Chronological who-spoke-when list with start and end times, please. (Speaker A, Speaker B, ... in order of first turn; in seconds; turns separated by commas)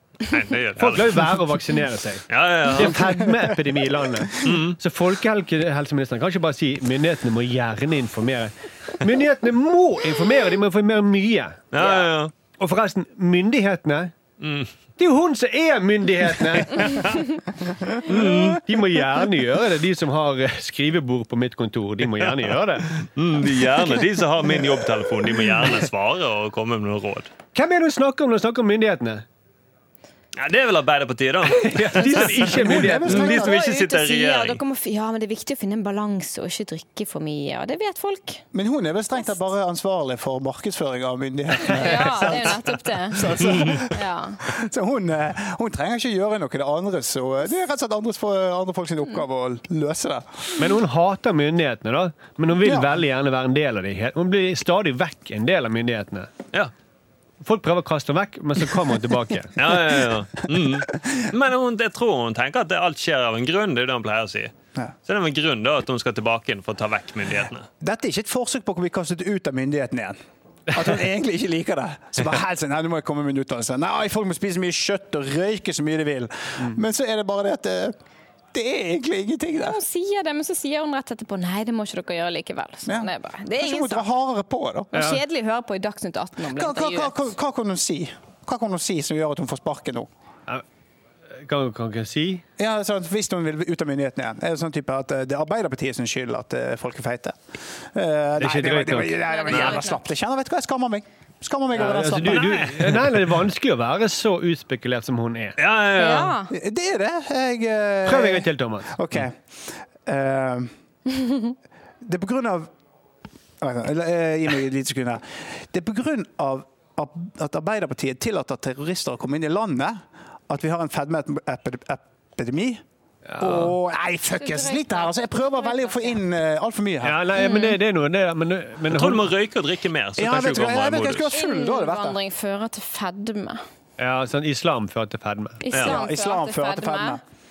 Speaker A: 0.3-1.3, Speaker B: 0.8-11.7, Speaker A: 2.3-3.1, Speaker A: 4.4-4.8, Speaker A: 11.7-12.3, Speaker B: 12.5-14.1, Speaker A: 14.4-14.7, Speaker B: 15.0-17.2, Speaker A: 16.8-17.2, Speaker A: 18.0-18.6, Speaker B: 18.1-22.9, Speaker A: 23.0-27.3, Speaker B: 27.6-29.2, Speaker A: 30.4-34.6, Speaker B: 31.6-33.3, Speaker C: 32.1-33.6, Speaker D: 33.1-38.4, Speaker C: 38.5-50.7, Speaker D: 41.6-44.4, Speaker A: 43.5-43.8, Speaker B: 50.6-56.3, Speaker C: 52.6-53.0, Speaker B: 57.4-59.6, Speaker A: 59.6-64.5, Speaker A: 65.1-67.7, Speaker C: 67.8-70.2, Speaker C: 70.7-78.0, Speaker C: 78.5-79.8, Speaker D: 79.6-84.1, Speaker C: 82.9-84.9, Speaker D: 84.9-87.3, Speaker B: 84.9-85.2, Speaker C: 86.5-90.1, Speaker B: 91.4-92.4, Speaker C: 92.6-102.8, Speaker B: 98.4-99.2, Speaker D: 99.2-100.0, Speaker A: 99.5-99.8, Speaker B: 101.7-105.6, Speaker A: 102.3-103.1, Speaker A: 105.6-106.3, Speaker D: 105.9-106.5, Speaker C: 106.5-110.7, Speaker B: 108.0-108.9, Speaker C: 112.0-112.7, Speaker C: 113.6-122.8, Speaker B: 123.3-123.7, Speaker C: 123.4-127.2, Speaker D: 124.4-126.2, Speaker B: 127.0-129.3, Speaker D: 127.3-127.8, Speaker A: 128.9-131.3, Speaker C: 130.2-132.2, Speaker D: 131.3-133.6, Speaker B: 134.0-135.6, Speaker D: 135.6-137.2, Speaker A: 135.7-136.0, Speaker C: 135.8-137.2